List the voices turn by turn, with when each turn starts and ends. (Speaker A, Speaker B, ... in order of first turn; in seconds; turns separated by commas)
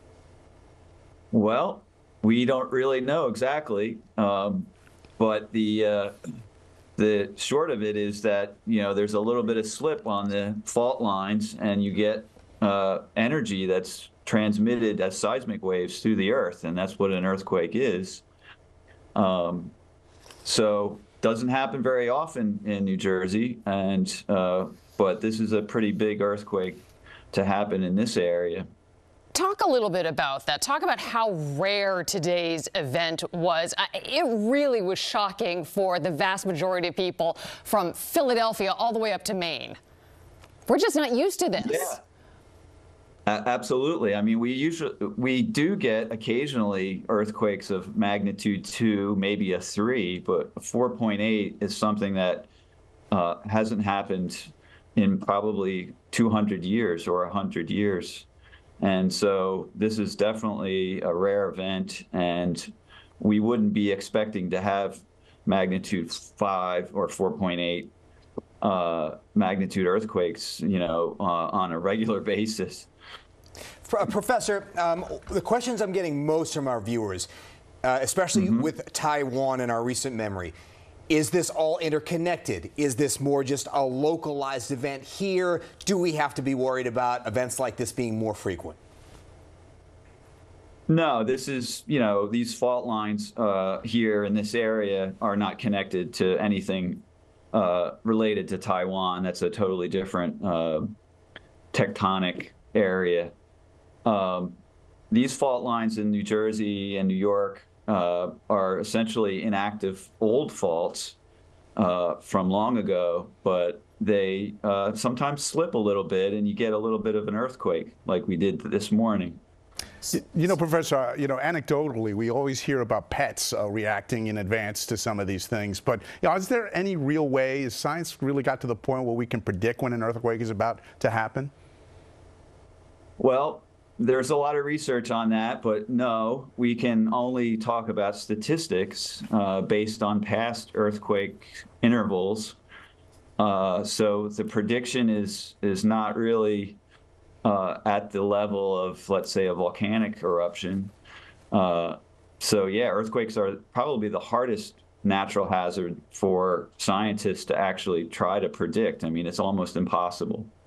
Speaker A: 1.3-6.1, Speaker A: 7.0-18.2, Speaker A: 19.1-19.7, Speaker A: 20.4-28.7, Speaker B: 29.3-39.8, Speaker B: 40.7-42.0, Speaker A: 41.6-42.0, Speaker A: 43.2-52.5, Speaker A: 53.1-58.3, Speaker A: 58.8-67.9, Speaker A: 68.6-72.9, Speaker C: 73.8-77.3, Speaker C: 77.8-80.5, Speaker A: 78.3-78.7, Speaker C: 81.1-88.8, Speaker A: 90.9-100.9, Speaker A: 101.7-103.3, Speaker A: 104.0-104.6, Speaker A: 105.1-111.2, Speaker A: 111.8-119.4, Speaker D: 120.1-131.5, Speaker A: 133.2-142.6, Speaker A: 143.4-146.8, Speaker A: 147.4-150.9, Speaker A: 151.5-160.5